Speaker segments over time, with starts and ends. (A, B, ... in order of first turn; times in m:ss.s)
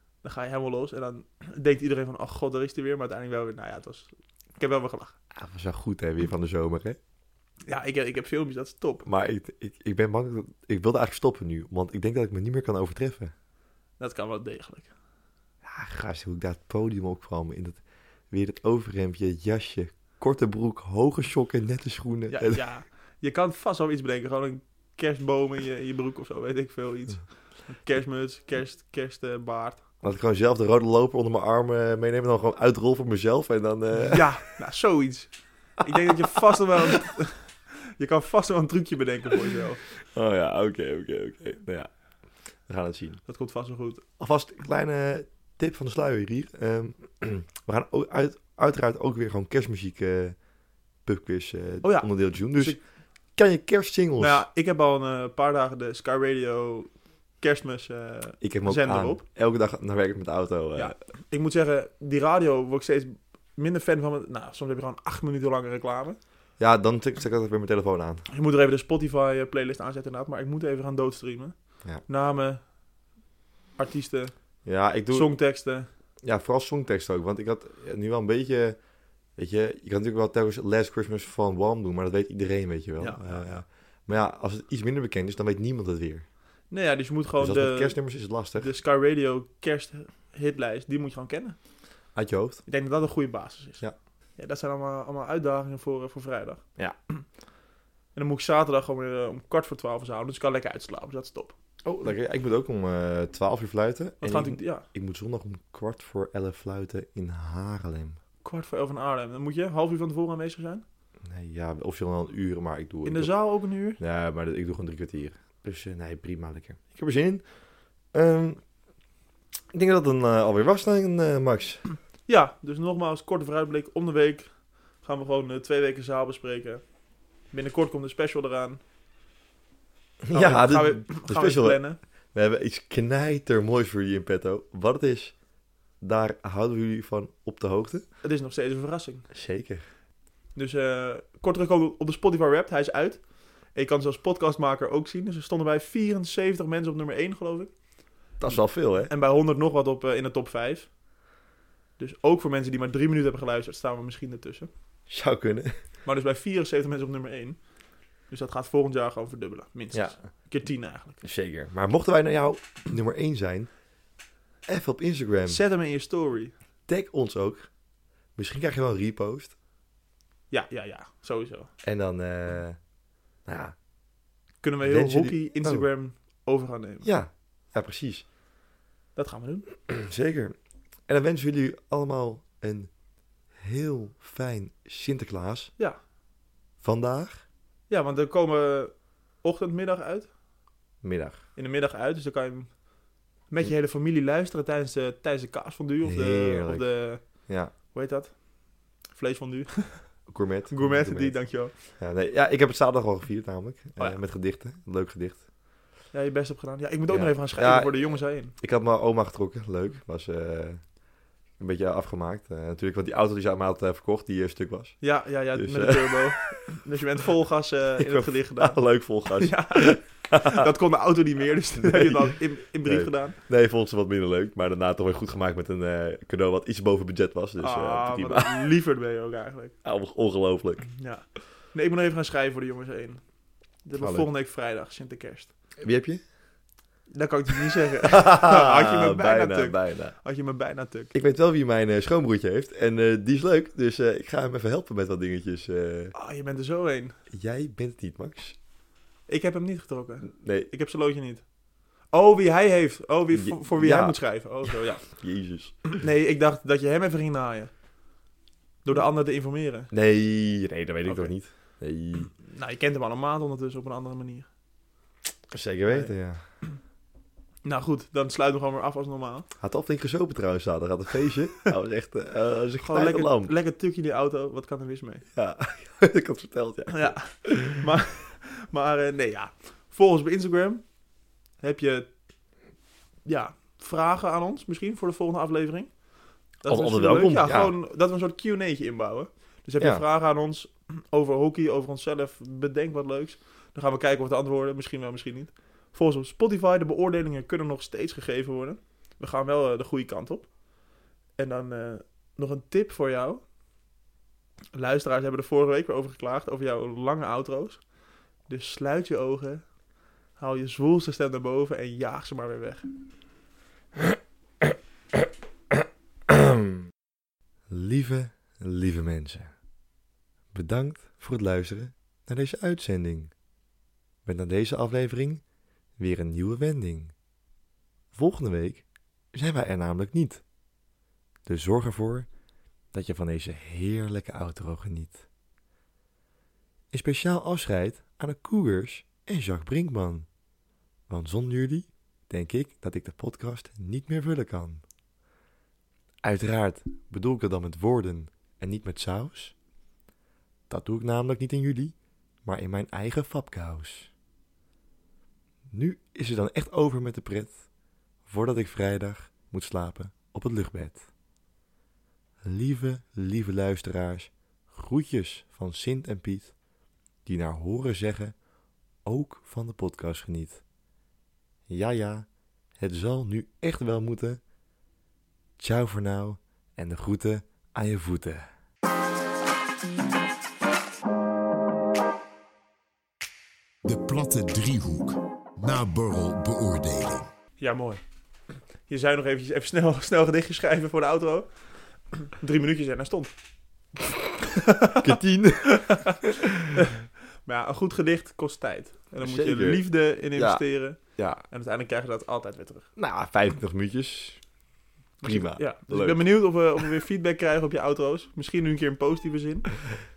0:00.2-0:05.1 A
0:05.4-0:07.0 B
0:07.7-0:09.1 A
0:09.1-0:13.3 B
0:14.0-0:14.9 A
0:15.6-0:22.6 B
0:22.3-0:29.8 A
0:30.0-0:34.3 B
0:34.0-0:39.8 A
0:40.1-0:41.9 B
0:42.6-0:43.2 B
0:43.3-0:44.0 A
0:44.2-0:50.4 B
0:51.0-0:52.8 B
0:51.8-0:52.8 A
0:53.4-0:54.4 B
0:54.2-0:59.2 A
0:58.4-1:01.0 B
1:00.8-1:06.2 A
1:06.6-1:08.2 B
1:08.3-1:12.6 A
1:13.8-1:14.3 A
1:14.6-1:15.4 B
1:15.1-1:15.9 A
1:16.2-1:18.8 B
1:19.4-1:26.2 B
1:23.0-1:23.6 A
1:26.7-1:28.0 A
1:27.4-1:28.7 B
1:28.5-1:31.6 A
1:32.1-1:32.6 B
1:32.7-1:33.8 A
1:34.4-1:36.6 A
1:38.1-1:41.5 A
1:41.8-1:48.2 B
1:44.2-1:44.9 A
1:48.4-1:50.8 A
1:51.2-1:53.4 B
1:53.0-1:54.0 A
1:54.0-1:57.5 B
1:58.1-1:58.6 B
1:59.7-2:01.8 B
2:02.2-2:06.8 A
2:07.5-2:08.8 A
2:10.2-2:15.4 B
2:10.3-2:12.0 A
2:16.0-2:18.0 B
2:18.2-2:19.3 A
2:19.3-2:19.8 B
2:20.5-2:27.7 A
2:28.4-2:29.1 B
2:29.1-2:30.9 A
2:32.0-2:34.7 A
2:35.1-2:35.8 B
2:36.0-2:37.6 A
2:38.3-2:41.2 A
2:41.2-2:43.7 B
2:44.6-2:45.6 B
2:45.5-2:46.5 A
2:46.9-2:47.7 B
2:48.4-2:49.6 B
2:50.5-2:51.7 A
2:51.8-2:52.8 B
2:53.4-2:53.8 B
2:54.6-2:57.1 A
2:54.8-2:55.9 B
2:57.0-2:58.2 B
2:59.2-2:59.7 A
2:59.9-3:00.6 B
3:01.1-3:02.9 B
3:03.5-3:05.7 B
3:06.8-3:07.4 B
3:07.9-3:10.3 A
3:11.0-3:11.4 B
3:11.6-3:12.8 A
3:13.5-3:18.4 A
3:16.0-3:17.7 B
3:19.1-3:21.7 A
3:20.3-3:25.4 B
3:26.1-3:28.5 A
3:27.1-3:30.8 B
3:31.6-3:35.0 B
3:35.0-3:38.8 A
3:35.5-3:36.5 B
3:38.0-3:40.7 B
3:39.4-3:43.4 A
3:41.8-3:48.7 B
3:47.6-3:49.8 A
3:49.8-3:50.9 B
3:50.9-3:53.2 A
3:53.8-3:55.5 A
3:54.0-3:54.3 B
3:55.8-3:56.2 B
3:57.1-4:01.1 A
3:58.0-4:00.1 B
4:01.1-4:06.1 B
4:06.1-4:07.2 A
4:07.3-4:08.6 B
4:09.3-4:11.4 A
4:10.3-4:10.7 B
4:12.1-4:15.1 A
4:13.3-4:15.9 B
4:16.0-4:17.7 A
4:18.8-4:19.9 A
4:19.9-4:22.3 B
4:21.0-4:21.3 A
4:22.4-4:24.5 A
4:25.5-4:26.4 B
4:25.9-4:26.1 A
4:27.6-4:29.5 A
4:29.6-4:33.5 B
4:32.8-4:35.2 A
4:35.4-4:37.8 B
4:36.9-4:40.8 A
4:41.6-4:42.1 A
4:43.2-4:46.0 A
4:46.6-5:00.5 A
4:46.7-4:47.7 B
4:49.8-4:50.0 B
5:01.4-5:03.4 A
5:04.7-5:07.8 A
5:08.4-5:09.7 A
5:10.4-5:12.9 A
5:14.6-5:16.8 B
5:17.7-5:19.5 B
5:20.5-5:23.3 B
5:24.2-5:25.4 B
5:26.0-5:27.1 B
5:28.1-5:30.4 B
5:31.4-5:32.3 B
5:32.9-5:35.2 B
5:36.9-5:40.3 B
5:41.1-5:44.8 B
5:46.2-5:49.5 B
5:50.7-5:54.1 B
5:55.7-5:57.6 B
5:58.3-6:01.0 B
6:02.4-6:06.5 B
6:07.2-6:08.4 B
6:09.0-6:10.6 B
6:11.7-6:14.4 B
6:15.6-6:18.4 B
6:23.8-6:27.3 C
6:27.6-6:28.0 A
6:28.9-6:31.5 A
6:32.2-6:33.3 A
6:34.6-6:35.1 A
6:35.0-6:36.4 B
6:35.7-6:36.2 A
6:36.7-6:42.9 A
6:39.2-6:41.4 B
6:43.0-6:44.4 B
6:45.2-6:46.2 B
6:45.2-6:49.7 A